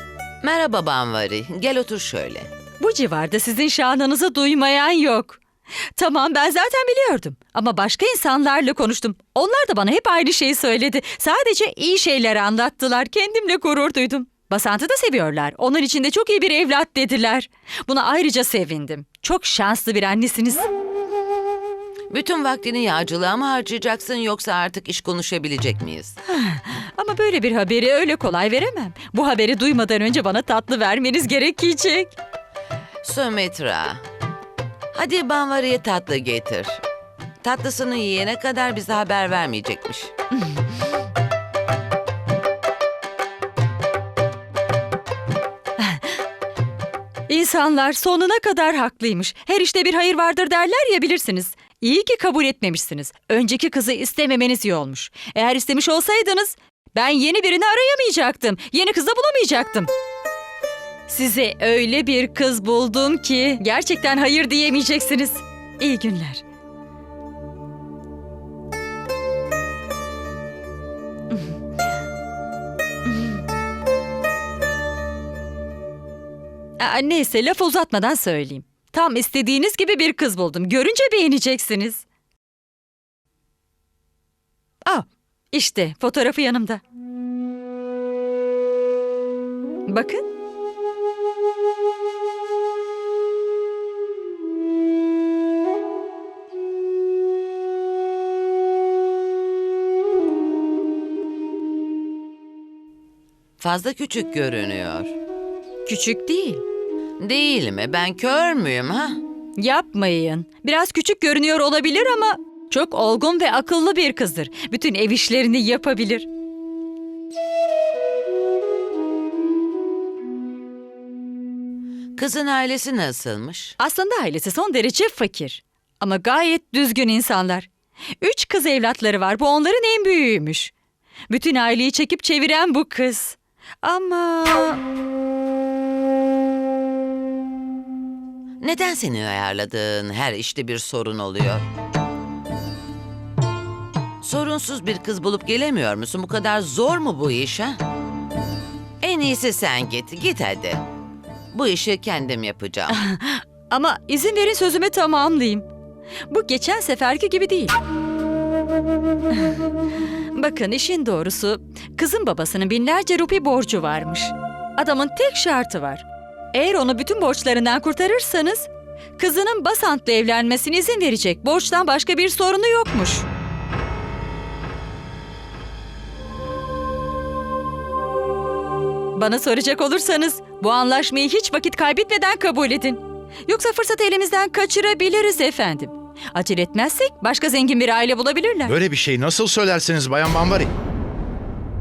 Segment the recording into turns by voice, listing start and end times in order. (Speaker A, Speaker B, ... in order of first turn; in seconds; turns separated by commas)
Speaker A: 0.4-2.5, Speaker B: 2.8-5.4, Speaker B: 6.0-20.7, Speaker A: 22.1-26.2, Speaker B: 26.3-32.1, Speaker A: 33.0-34.0, Speaker A: 34.9-36.8, Speaker A: 37.4-40.1, Speaker B: 45.8-46.0, Speaker B: 47.3-59.9, Speaker B: 61.1-66.4, Speaker B: 76.8-82.0, Speaker B: 84.8-86.8, Speaker B: 89.9-90.2, Speaker A: 103.6-105.1, Speaker B: 105.9-106.6, Speaker A: 107.2-109.2, Speaker B: 109.6-116.3, Speaker A: 122.2-123.8, Speaker B: 123.8-127.7, Speaker B: 128.2-130.7, Speaker B: 131.3-134.8, Speaker A: 138.6-141.7, Speaker A: 144.2-147.8, Speaker A: 149.0-150.8, Speaker A: 151.5-153.0, Speaker B: 152.9-155.7, Speaker B: 156.3-157.7, Speaker B: 160.3-173.3, Speaker B: 179.2-188.7, Speaker C: 188.7-190.7